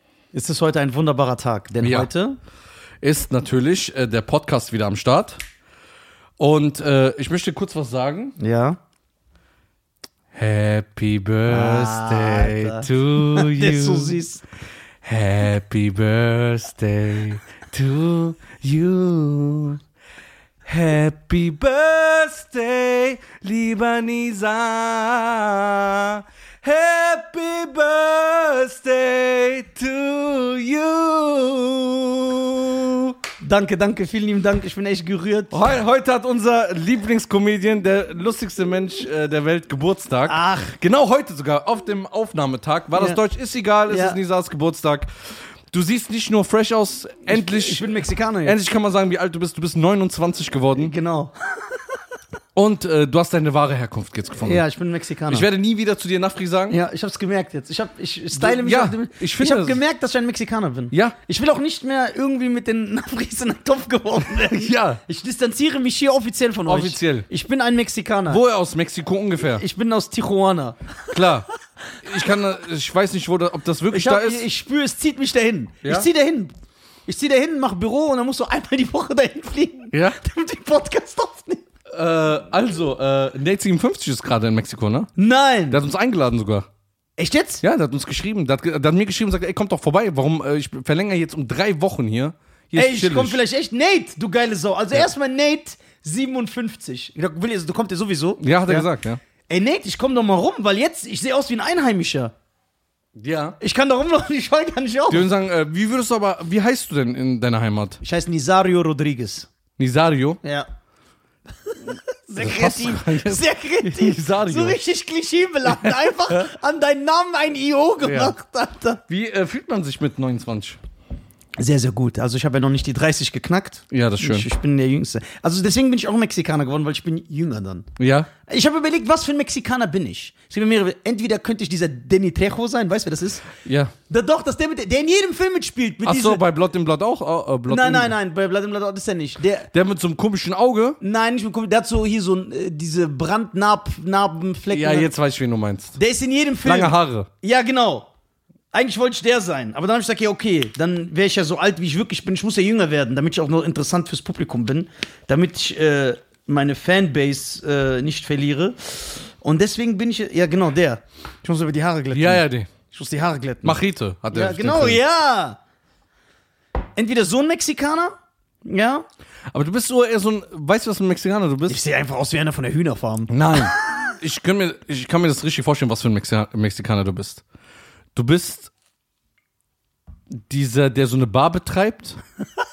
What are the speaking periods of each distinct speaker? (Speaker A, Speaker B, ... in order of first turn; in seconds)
Speaker A: 0.3-2.4, 8.4-8.8, 11.5-14.4, 33.4-35.6, 40.3-40.8, 43.9-44.2, 47.3-48.6, 50.8-51.8, 54.4-55.5, 56.7-68.4, 69.5-71.0, 73.9-76.5, 77.1-81.6, 85.2-85.8, 87.2-87.6, 92.8-98.9, 99.5-102.3, 103.6-105.3, 108.0-109.5, 110.4-110.7, 111.7-119.0, 121.6-127.9, 128.5-133.5, 134.1-136.4, 137.7-139.7, 141.0-145.1, 146.0-148.1, 148.7-163.8, 164.3-165.6, 167.0-168.1, 168.7-169.1, 171.7-174.1
Speaker B: 1.8-2.1, 3.0-5.4, 6.4-8.3, 10.3-14.2, 15.0-19.8, 20.7-33.2, 35.5-45.1, 45.7-47.8, 48.5-50.9, 52.5-54.6, 55.3-56.8, 58.3-59.8, 64.3-65.0, 66.7-67.3, 68.3-69.6, 71.1-71.5, 72.0-74.4, 79.9-80.2, 81.9-85.1, 85.7-86.7, 87.6-93.4, 98.4-99.2, 103.2-103.6, 105.1-108.0, 109.8-110.4, 112.4-114.8, 115.7-116.1, 118.0-118.3, 119.1-120.8, 123.9-124.5, 128.0-128.3, 133.6-133.9, 136.1-138.2, 139.7-141.0, 144.7-146.0, 146.6-147.3, 162.1-162.7, 163.6-165.0, 169.5-171.8, 173.3-177.4, 178.2-178.7, 180.3-182.2